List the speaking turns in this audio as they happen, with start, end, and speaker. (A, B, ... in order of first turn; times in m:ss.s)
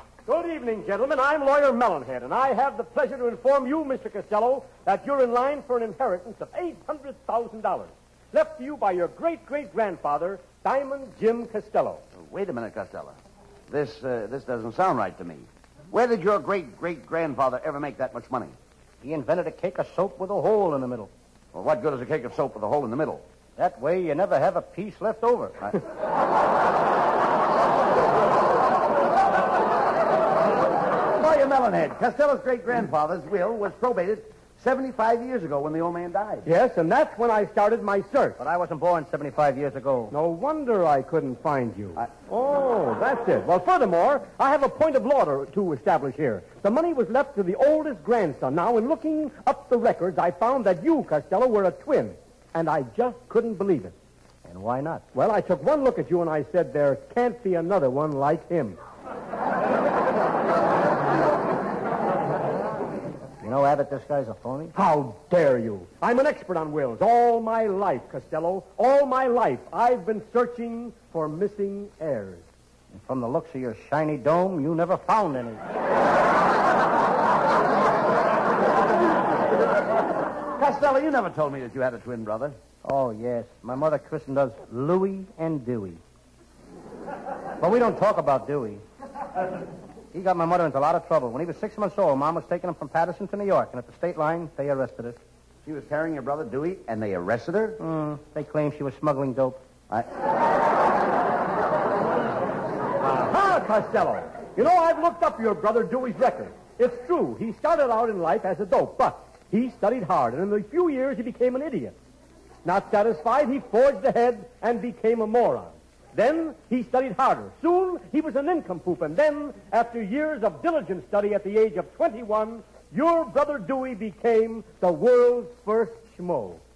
0:00.2-0:12.0 A
0:12.1-0:13.2 B
0:13.7-0:18.5 B
0:19.0-0:21.1 C
0:21.5-0:23.2 B
0:23.6-0:25.7 C
0:31.1-0:36.4 B
0:36.4-0:38.4 A
0:38.4-0:40.1 C
0:40.1-0:53.9 A
0:54.4-0:55.0 C
0:55.1-0:58.8 A
1:03.4-1:04.7 C
1:04.7-1:12.4 A
1:12.9-1:15.6 C
1:20.6-1:22.6 B
1:22.8-1:26.0 C
1:27.6-1:28.8 C
1:30.1-1:35.2 C
1:35.6-1:37.8 B
1:37.8-1:39.6 C
1:43.0-1:51.9 A
1:52.6-2:06.6 A